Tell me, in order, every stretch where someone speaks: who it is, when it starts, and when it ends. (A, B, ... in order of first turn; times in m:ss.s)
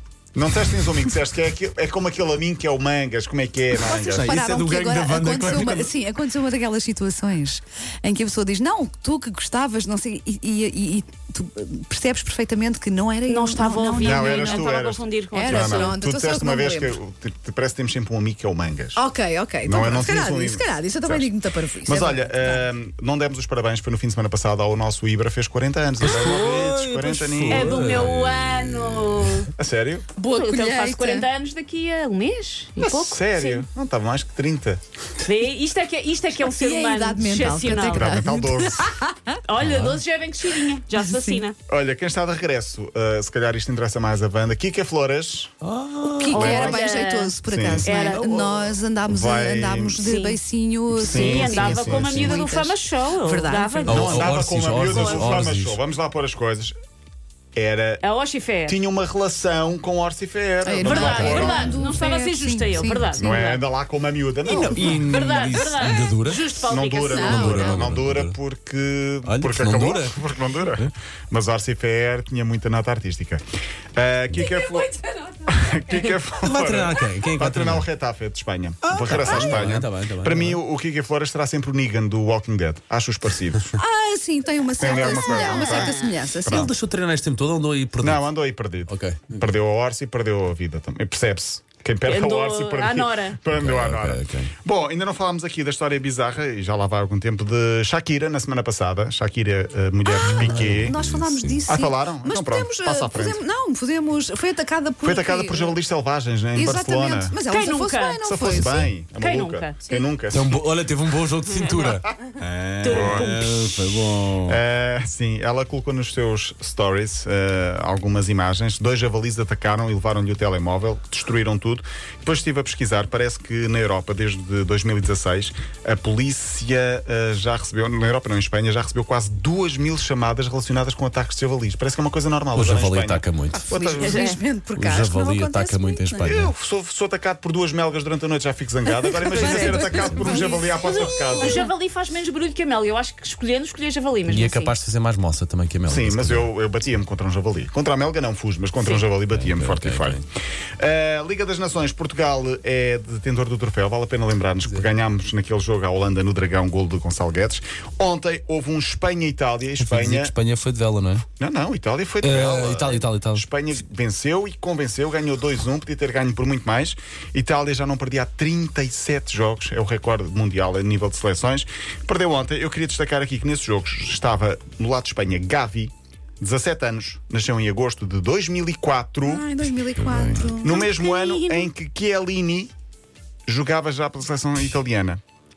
0:00.3-0:04.5 A
0:03.8-0:05.9 B
0:04.0-0:14.6 C
0:13.3-0:16.0 D
0:14.0-0:19.0 A
0:15.3-0:17.0 C
0:19.0-0:22.7 C
0:19.6-0:21.3 A
0:21.8-0:28.0 A
0:26.0-0:29.5 B
0:26.1-0:26.5 D
0:27.5-0:29.5 D
0:29.6-0:30.1 A
0:30.2-0:31.3 C
0:30.3-0:33.6 D
0:32.8-0:34.8 A
0:35.2-0:38.2 D
0:36.4-0:39.4 C
0:37.9-0:39.0 A
0:39.5-0:41.6 D
0:39.6-0:40.0 B
0:40.9-0:41.4 C
0:41.7-0:45.5 A
0:45.6-0:46.8 B
0:46.2-0:53.9 C
0:46.3-0:48.3 D
0:46.4-0:46.8 A
0:47.5-0:48.5 A
0:48.1-0:48.4 B
0:49.1-0:50.0 A
0:50.0-0:50.4 D
0:51.0-0:52.4 A
0:51.0-0:54.3 D
0:53.8-0:55.8 B
0:53.9-0:56.8 A
0:54.9-0:55.3 D
0:57.6-0:58.0 A
0:58.0-0:58.8 D
0:58.7-1:01.9 A
1:00.6-1:03.1 C
1:00.8-1:03.6 D
1:03.2-1:05.0 A
1:04.4-1:08.4 B
1:04.5-1:07.5 D
1:06.7-1:13.4 A
1:07.0-1:07.8 C
1:09.3-1:10.9 B
1:14.0-1:23.7 A
1:16.4-1:17.9 B
1:18.8-1:20.6 B
1:19.2-1:19.6 C
1:23.8-1:26.7 C
1:24.8-1:26.7 A
1:24.9-1:26.1 D
1:26.5-1:28.3 B
1:28.0-1:41.0 A
1:28.9-1:29.5 B
1:32.1-1:33.4 D
1:33.5-1:34.5 B
1:40.1-1:45.8 C
1:40.2-1:41.6 B
1:41.7-1:43.4 A
1:45.0-1:47.4 A
1:46.5-1:48.9 C
1:47.5-1:48.2 D
1:48.2-1:50.6 A
1:49.2-1:49.9 D
1:50.3-1:52.1 B
1:51.5-1:51.9 D
1:52.2-1:53.3 A
1:52.8-1:53.5 D
1:52.9-1:54.6 B
1:54.5-2:14.2 A
2:12.5-2:13.6 B
2:13.7-2:16.4 C
2:14.0-2:14.4 D
2:14.8-2:16.5 B
2:16.2-2:21.6 A
2:18.9-2:20.7 C
2:19.2-2:24.8 D
2:21.3-2:21.7 C
2:24.3-2:26.5 B
2:25.9-2:30.2 A
2:28.8-2:29.1 D
2:29.2-2:30.2 B
2:30.8-2:40.3 A
2:39.8-2:41.3 B
2:41.4-2:59.4 A
2:42.2-2:43.4 B
2:59.2-3:00.8 C
3:00.0-3:00.5 B
3:00.4-3:02.7 A
3:00.6-3:01.7 D
3:03.5-3:05.2 A